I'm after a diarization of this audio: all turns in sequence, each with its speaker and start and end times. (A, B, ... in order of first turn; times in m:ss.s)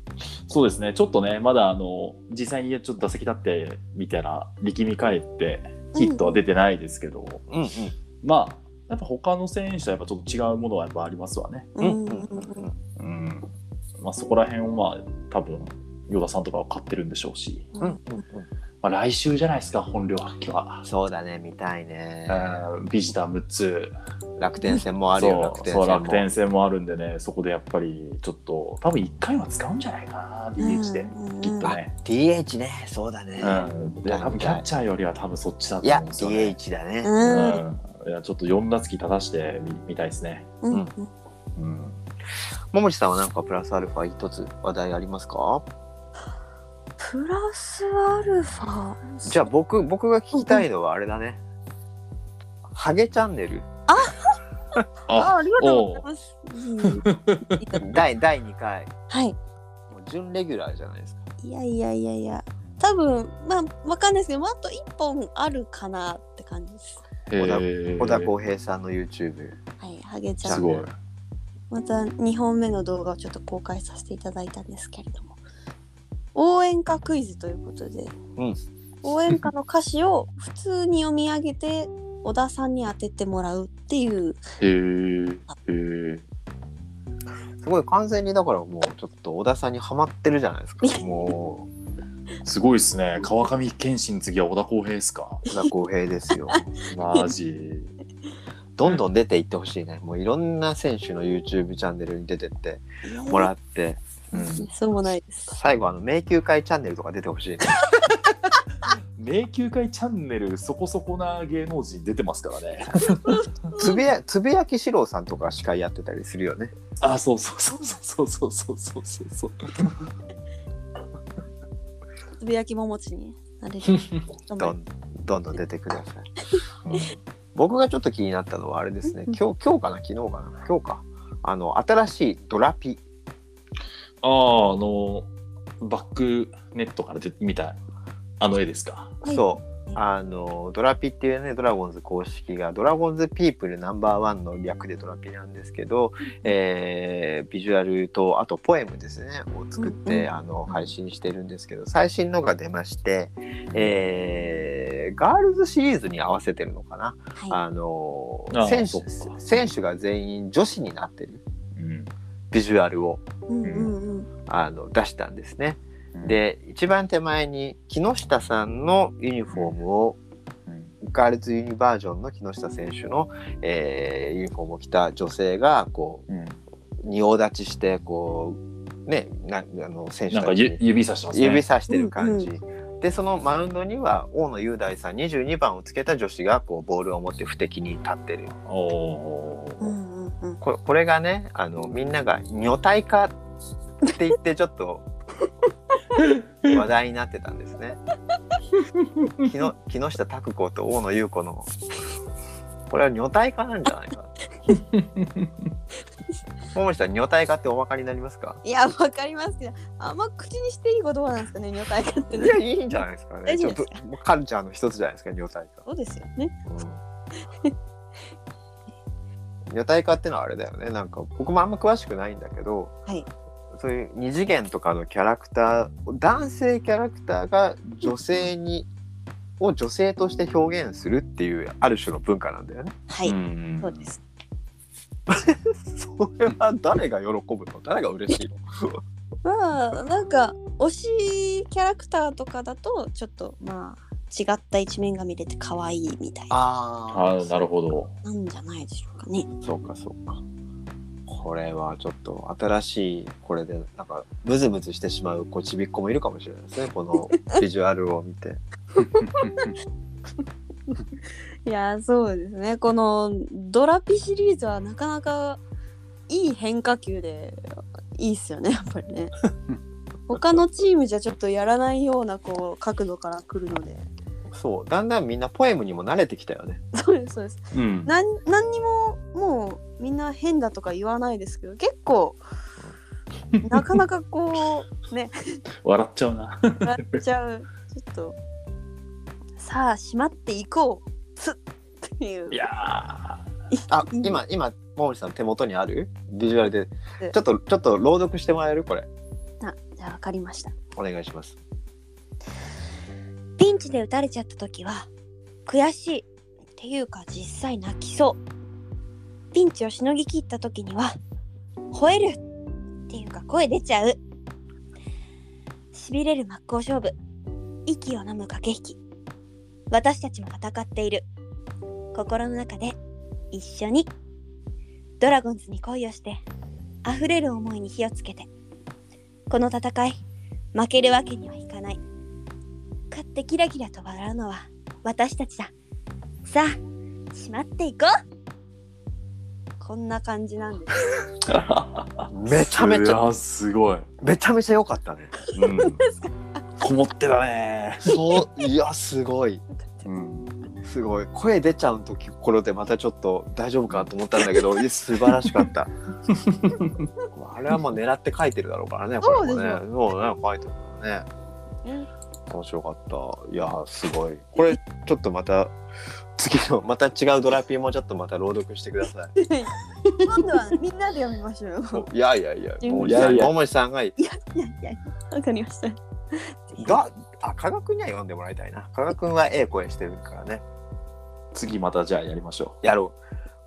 0:00.5-0:07.4 A
0:05.9-0:06.4 B
0:07.5-0:08.0 C
0:08.2-0:11.7 A
0:11.8-0:12.7 B
0:11.8-0:12.7 C
0:13.0-0:17.7 A
0:17.8-0:18.5 C
0:18.8-0:20.8 A
0:20.8-0:22.6 C
0:22.3-0:23.9 A
0:24.4-0:26.3 C
0:25.2-0:31.9 A
0:30.6-0:31.7 B
0:31.6-0:34.6 C
0:33.4-0:36.6 A
0:35.8-0:37.6 C
0:37.0-0:37.6 B
0:37.2-0:40.5 A
0:40.6-0:41.1 B
0:41.6-0:42.0 A
0:42.7-0:45.6 C
0:47.0-0:49.4 B
0:49.2-0:51.4 C
0:50.3-0:50.6 B
0:52.7-0:53.7 C
0:53.9-0:54.3 B
0:55.1-0:56.0 A
0:55.1-0:57.8 B
0:56.8-0:57.6 A
0:57.8-0:58.9 C
0:59.1-0:59.4 B
0:59.9-1:01.2 C
1:01.4-1:07.0 B
1:07.3-1:08.3 A
1:07.4-1:09.6 C
1:09.8-1:10.6 B
1:10.4-1:10.8 C
1:10.5-1:10.9 A
1:11.7-1:15.4 B
1:16.3-1:18.1 B
1:19.0-1:24.4 B
1:24.6-1:26.2 A
1:27.6-1:31.7 C
1:30.8-1:31.2 B
1:32.4-1:35.4 A
1:35.5-1:36.6 C
1:36.5-1:37.3 B
1:36.8-1:37.9 A
1:38.8-1:44.0 C
1:43.0-1:43.5 B
1:44.3-1:44.7 A
1:44.3-1:45.5 B
1:45.5-1:47.7 C
1:49.2-1:53.4 A
1:53.2-1:54.0 B
1:53.8-1:56.7 C
1:57.0-2:00.1 A
2:02.4-2:04.8 B
2:04.6-2:06.2 C
2:06.9-2:13.0 C
2:09.0-2:09.4 B
2:14.2-2:15.3 A
2:15.8-2:17.8 A
2:18.4-2:19.2 A
2:19.2-2:20.0 B
2:19.3-2:41.4 C
2:29.8-2:30.3 B
2:38.5-2:39.4 A
2:41.8-2:42.1 A
2:42.5-2:43.2 C
2:43.5-2:44.3 B
2:43.6-2:43.9 A
2:44.5-2:50.2 C
2:50.7-2:50.9 A
2:51.0-2:56.2 C
2:56.3-2:56.6 A
2:57.0-3:00.8 C
3:00.3-3:01.6 A
3:01.3-3:08.5 C
3:01.9-3:02.5 B
3:08.6-3:09.9 A
3:09.8-3:10.6 B
3:10.6-3:13.3 C
3:14.0-3:15.1 C
3:16.6-3:18.0 C
3:19.4-3:21.7 C
3:22.9-3:24.3 C
3:24.8-3:25.5 A
3:26.7-3:28.6 C
3:28.6-3:32.6 B
3:32.3-3:35.8 C
3:33.4-3:33.9 B
3:35.8-3:36.5 B
3:36.7-3:37.0 C
3:37.4-3:37.7 B
3:39.7-3:42.9 C
3:43.7-3:48.9 C
3:49.6-3:52.9 C
3:53.1-3:54.2 B
3:53.2-3:54.1 A
3:55.3-3:59.0 C
3:59.4-4:06.6 B
4:06.5-4:07.6 C
4:07.1-4:08.1 A
4:08.2-4:09.5 B
4:09.6-4:10.4 C
4:11.2-4:18.6 C
4:19.0-4:19.7 B
4:19.2-4:19.7 A
4:21.6-4:25.6 B
4:26.3-4:29.3 B
4:30.3-4:34.1 B
4:34.5-4:36.8 C
4:36.9-4:42.4 B
4:37.7-4:38.1 A
4:43.5-4:43.9 A
4:43.6-4:45.6 B
4:45.8-4:47.2 A
4:46.8-4:48.4 B
4:49.6-4:52.6 B
4:52.5-4:53.4 A
4:53.7-4:54.4 B
4:53.9-4:59.1 C
4:59.6-5:00.7 B
5:00.9-5:01.6 C
5:03.6-5:05.1 B
5:05.7-5:08.4 B
5:09.5-5:11.1 B
5:11.9-5:12.4 B
5:13.1-5:14.2 B
5:15.9-5:17.2 B
5:17.9-5:19.0 B
5:19.9-5:21.2 B
5:22.1-5:23.0 B
5:23.5-5:24.1 B
5:25.2-5:26.4 B
5:27.0-5:28.5 B
5:29.5-5:30.2 B
5:30.7-5:32.0 B
5:33.1-5:35.7 B
5:36.4-5:36.8 B
5:37.3-5:38.1 B
5:39.8-5:41.0 B
5:41.4-5:44.1 A
5:42.3-5:43.2 C
5:44.2-5:45.3 C
5:45.5-5:46.0 A
5:45.6-5:46.2 B
5:46.8-5:48.4 A
5:48.0-5:49.6 C
5:50.0-5:50.6 A
5:50.8-5:55.9 C
5:56.3-5:57.0 A
5:57.3-6:01.3 C
5:59.2-5:59.8 B
6:02.5-6:05.7 C
6:06.4-6:09.3 C
6:09.4-6:12.0 B
6:11.9-6:14.1 C
6:12.8-6:13.4 B
6:13.0-6:13.5 A
6:14.2-6:17.0 B
6:16.8-6:20.6 C
6:21.5-6:22.8 A
6:22.8-6:23.2 C